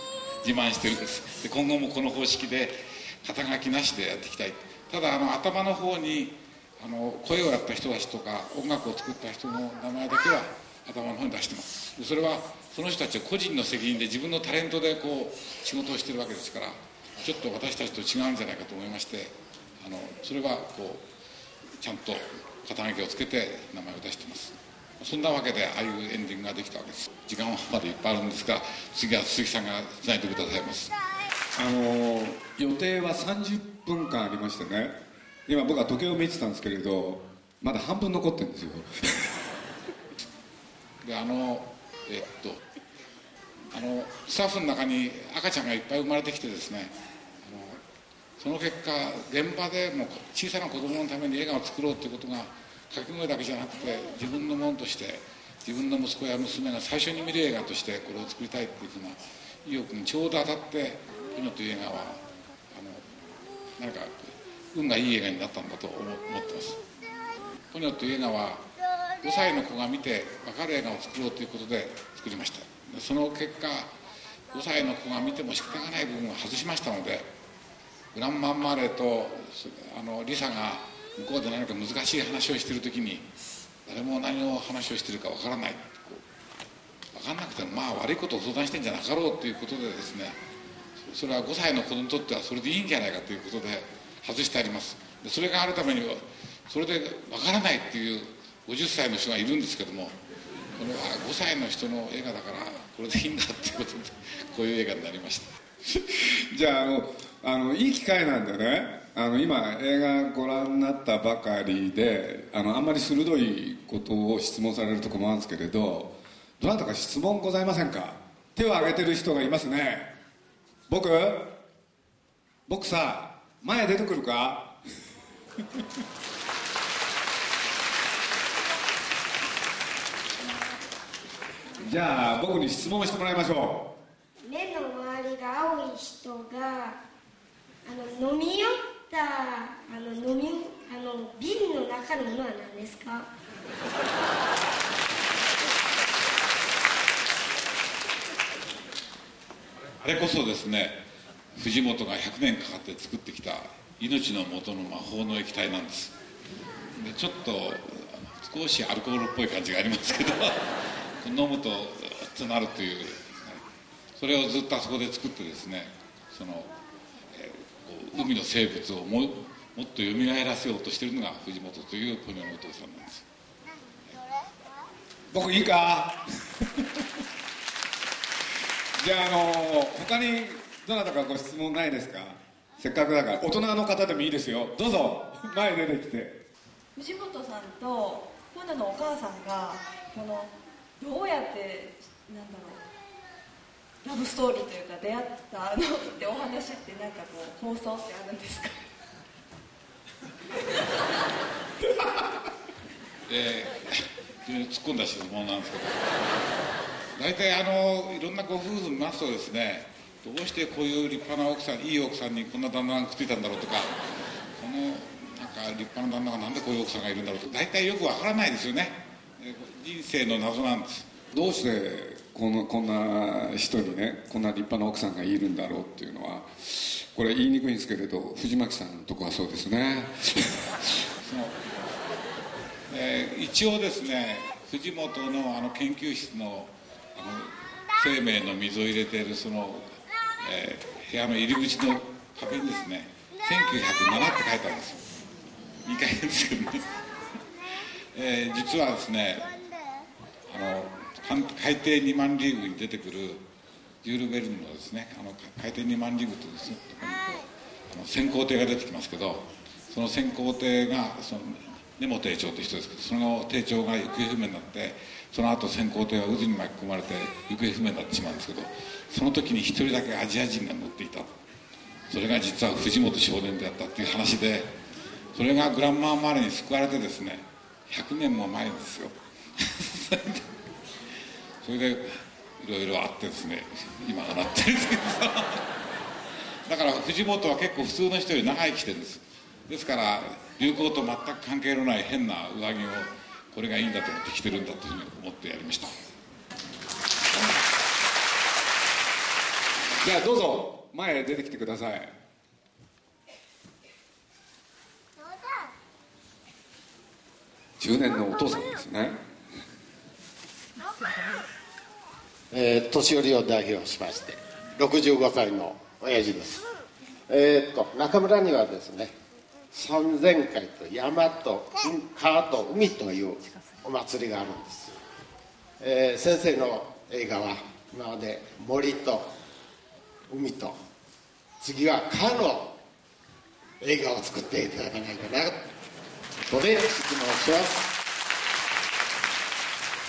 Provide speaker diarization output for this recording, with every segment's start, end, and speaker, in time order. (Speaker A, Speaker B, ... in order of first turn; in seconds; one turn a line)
Speaker A: 0.4-21.1
Speaker A: 21.8-30.9
Speaker B: 31.6-39.4
Speaker A: 41.0-42.6
Speaker A: 43.7-47.8
Speaker A: 48.4-66.8
Speaker A: 67.7-68.7
Speaker A: 69.2-73.9
Speaker A: 74.5-77.3
Speaker A: 78.1-83.2
Speaker A: 83.9-86.2
Speaker A: 87.1-90.4
Speaker A: 91.0-100.2
Speaker A: 100.8-105.6
Speaker B: 105.9-120.1
Speaker B: 120.9-121.6
Speaker B: 122.7-124.8
Speaker B: 131.8-133.9
Speaker C: 134.4-137.0
Speaker C: 137.8-143.3
Speaker A: 150.0-151.0
Speaker A: 151.6-156.1
Speaker A: 156.9-163.6
Speaker A: 164.2-166.7
Speaker A: 167.3-173.2
Speaker B: 175.3-177.0
Speaker B: 179.0-186.4
Speaker D: 187.0-192.8
Speaker D: 194.0-198.8
Speaker A: 203.3-206.2
Speaker A: 207.2-214.1
Speaker A: 214.6-221.1
Speaker B: 221.3-231.1
Speaker A: 231.2-231.6
Speaker A: 232.9-245.0
Speaker A: 245.8-247.0
Speaker A: 248.1-249.6
Speaker A: 250.5-253.4
Speaker A: 254.0-271.4
Speaker A: 272.1-274.7
Speaker A: 275.3-280.5
Speaker A: 281.6-285.7
Speaker A: 286.7-296.0
Speaker B: 300.0-302.1
Speaker B: 307.8-309.2
Speaker E: 312.5-316.7
Speaker E: 317.3-319.1
Speaker E: 319.7-325.0
Speaker E: 325.8-329.3
Speaker E: 330.3-330.8
Speaker E: 331.6-332.8
Speaker E: 333.8-335.7
Speaker E: 336.4-337.9